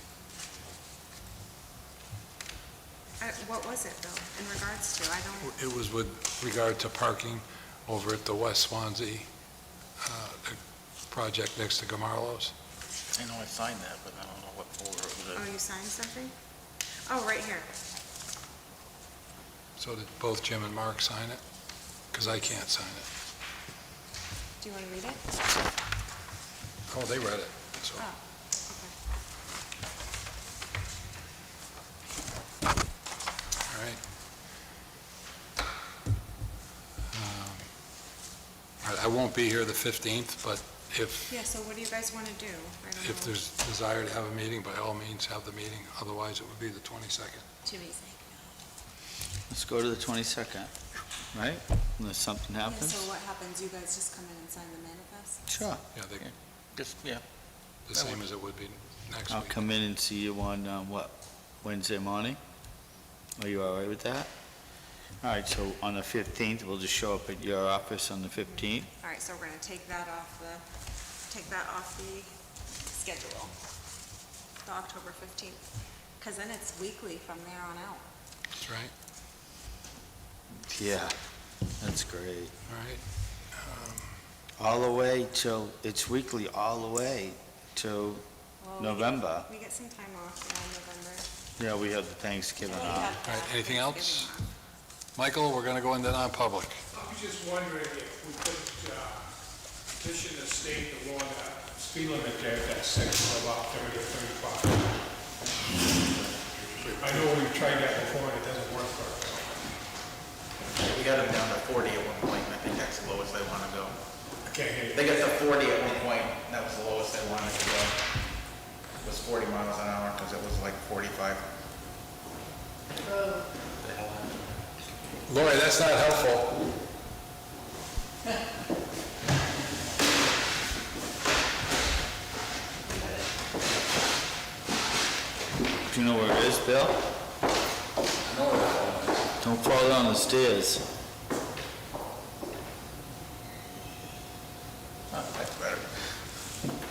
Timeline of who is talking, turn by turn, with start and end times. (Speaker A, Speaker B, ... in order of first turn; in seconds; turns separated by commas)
Speaker A: 3.2-5.6, Speaker B: 5.4-9.3, Speaker B: 10.0-10.6, Speaker B: 11.1-12.5, Speaker C: 13.1-15.4, Speaker A: 15.3-16.3, Speaker A: 17.1-17.7, Speaker B: 19.8-21.4, Speaker B: 22.1-23.1, Speaker A: 24.6-25.3, Speaker B: 26.9-28.0, Speaker A: 28.0-28.9, Speaker B: 33.7-34.0, Speaker B: 37.1-37.6, Speaker B: 38.8-41.3, Speaker A: 41.3-43.4, Speaker B: 43.0-47.5, Speaker A: 47.6-48.5, Speaker D: 49.5-50.7, Speaker D: 51.3-53.1, Speaker A: 52.6-55.5, Speaker D: 55.5-55.8, Speaker B: 55.9-56.3, Speaker C: 56.2-57.2, Speaker B: 57.9-59.5, Speaker D: 59.3-62.4, Speaker D: 63.4-64.3, Speaker D: 65.2-68.9, Speaker A: 68.4-70.6, Speaker A: 71.3-72.3, Speaker A: 72.9-73.5, Speaker A: 74.6-75.7, Speaker A: 76.2-78.0, Speaker B: 78.6-78.9, Speaker D: 80.7-81.1, Speaker D: 81.8-82.5, Speaker B: 82.7-84.1, Speaker D: 84.6-88.2, Speaker A: 88.6-91.3, Speaker D: 88.8-89.5, Speaker D: 91.6-93.2, Speaker A: 92.6-94.5, Speaker B: 93.2-94.3, Speaker B: 95.2-96.8, Speaker E: 96.9-99.2, Speaker E: 100.0-104.8, Speaker B: 106.2-107.9, Speaker E: 107.0-109.5, Speaker C: 110.7-114.0, Speaker E: 114.5-115.0, Speaker C: 114.9-118.0, Speaker C: 119.0-121.4, Speaker C: 123.8-124.3, Speaker B: 125.3-126.5, Speaker D: 135.9-137.0, Speaker B: 138.2-139.3, Speaker D: 139.4-140.8, Speaker C: 145.1-145.9